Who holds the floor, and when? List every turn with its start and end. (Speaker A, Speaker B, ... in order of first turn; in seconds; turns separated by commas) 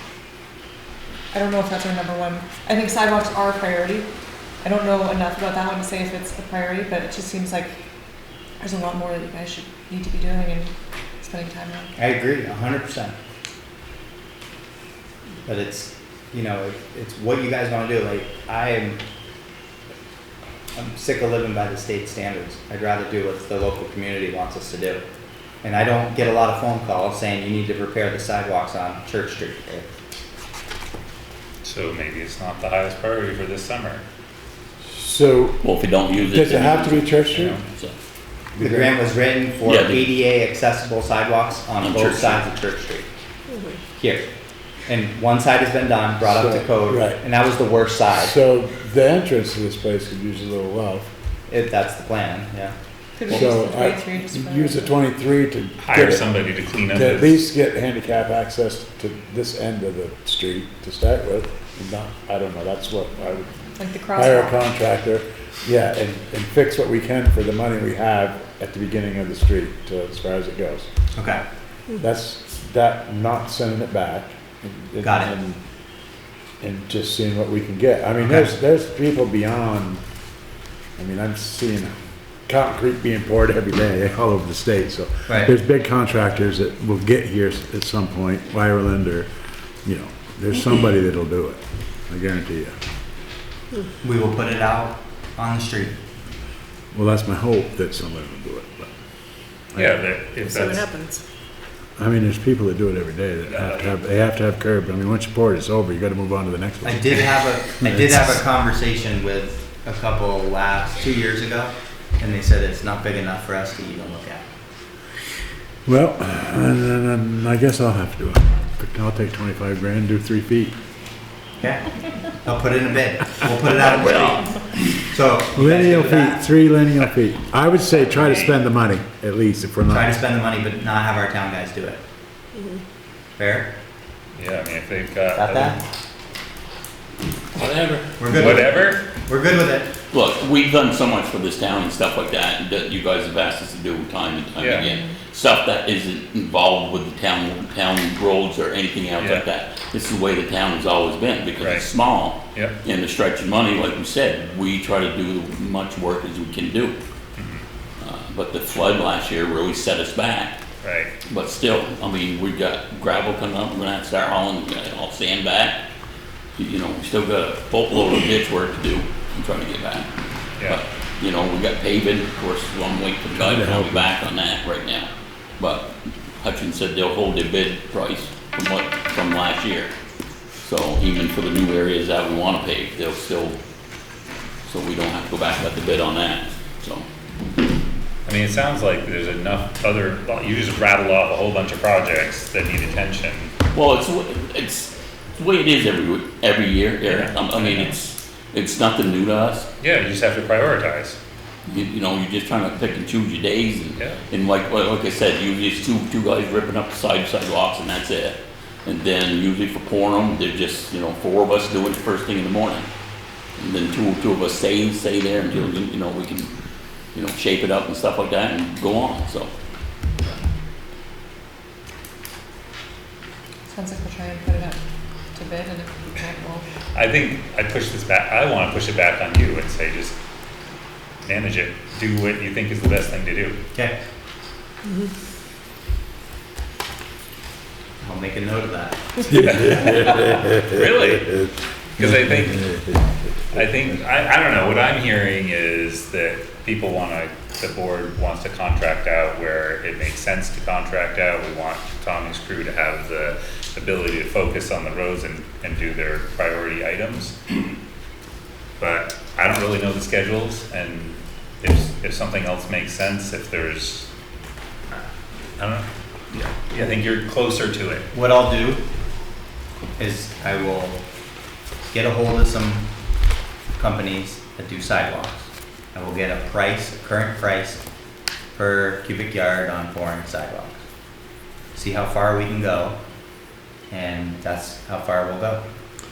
Speaker A: 1.3-4.1, Speaker A: 4.6-7.7, Speaker A: 8.6-11.9, Speaker B: 11.9-13.1, Speaker B: 15.4-19.0, Speaker B: 20.8-25.0, Speaker B: 25.6-29.9, Speaker C: 31.6-34.0, Speaker D: 34.8-35.6, Speaker E: 35.6-37.1, Speaker D: 36.3-37.6, Speaker C: 37.2-37.6, Speaker D: 38.5-38.9, Speaker B: 38.6-43.1, Speaker E: 39.6-40.1, Speaker E: 41.8-42.5, Speaker B: 44.0-44.2, Speaker B: 44.9-48.3, Speaker D: 46.2-47.2, Speaker D: 48.1-51.1, Speaker B: 51.5-52.7, Speaker A: 53.2-54.9, Speaker D: 53.3-63.5, Speaker C: 55.8-57.4, Speaker A: 63.8-64.6, Speaker D: 64.1-70.9, Speaker B: 71.1-71.4, Speaker D: 72.0-75.6, Speaker B: 75.0-75.3, Speaker D: 76.6-80.0, Speaker B: 78.2-78.5, Speaker D: 81.0-89.3, Speaker B: 85.3-85.5, Speaker D: 89.8-92.8, Speaker B: 94.0-96.0, Speaker D: 96.9-98.9, Speaker D: 99.7-100.0, Speaker C: 99.8-100.9, Speaker A: 100.5-101.2, Speaker D: 102.0-108.4, Speaker C: 103.5-103.9, Speaker B: 106.8-114.5, Speaker D: 115.8-120.7, Speaker B: 121.6-126.5, Speaker E: 123.7-124.8, Speaker D: 125.5-130.1, Speaker C: 127.9-128.6, Speaker B: 129.9-132.0, Speaker B: 133.4-133.7, Speaker C: 134.3-135.8, Speaker B: 135.3-135.8, Speaker E: 137.6-138.0, Speaker B: 138.2-139.9, Speaker C: 138.2-139.0, Speaker E: 140.1-157.0, Speaker C: 144.6-144.8, Speaker A: 144.8-145.2, Speaker C: 149.2-149.4, Speaker C: 151.6-151.9, Speaker C: 157.4-157.6, Speaker E: 158.0-160.6, Speaker C: 160.8-161.1, Speaker E: 161.2-165.8, Speaker E: 166.6-170.1, Speaker E: 170.7-179.9, Speaker D: 173.3-174.1, Speaker E: 180.6-183.6, Speaker E: 184.6-187.1, Speaker C: 188.2-193.6, Speaker E: 193.7-199.7, Speaker C: 197.0-198.0, Speaker C: 199.8-201.2, Speaker E: 201.7-212.9, Speaker C: 204.0-204.2, Speaker E: 213.6-216.5, Speaker E: 217.1-219.5, Speaker A: 223.7-224.8, Speaker A: 225.3-226.6, Speaker C: 226.9-230.2, Speaker C: 231.2-233.6, Speaker B: 238.0-239.4, Speaker C: 239.3-241.3, Speaker D: 239.3-240.8, Speaker C: 242.0-242.8, Speaker C: 243.5-257.7, Speaker C: 258.8-264.1, Speaker C: 265.6-268.1, Speaker B: 268.1-268.8, Speaker B: 270.0-271.0, Speaker B: 271.8-272.9, Speaker B: 273.7-277.8, Speaker B: 278.5-280.8, Speaker B: 281.7-283.0, Speaker B: 283.9-285.6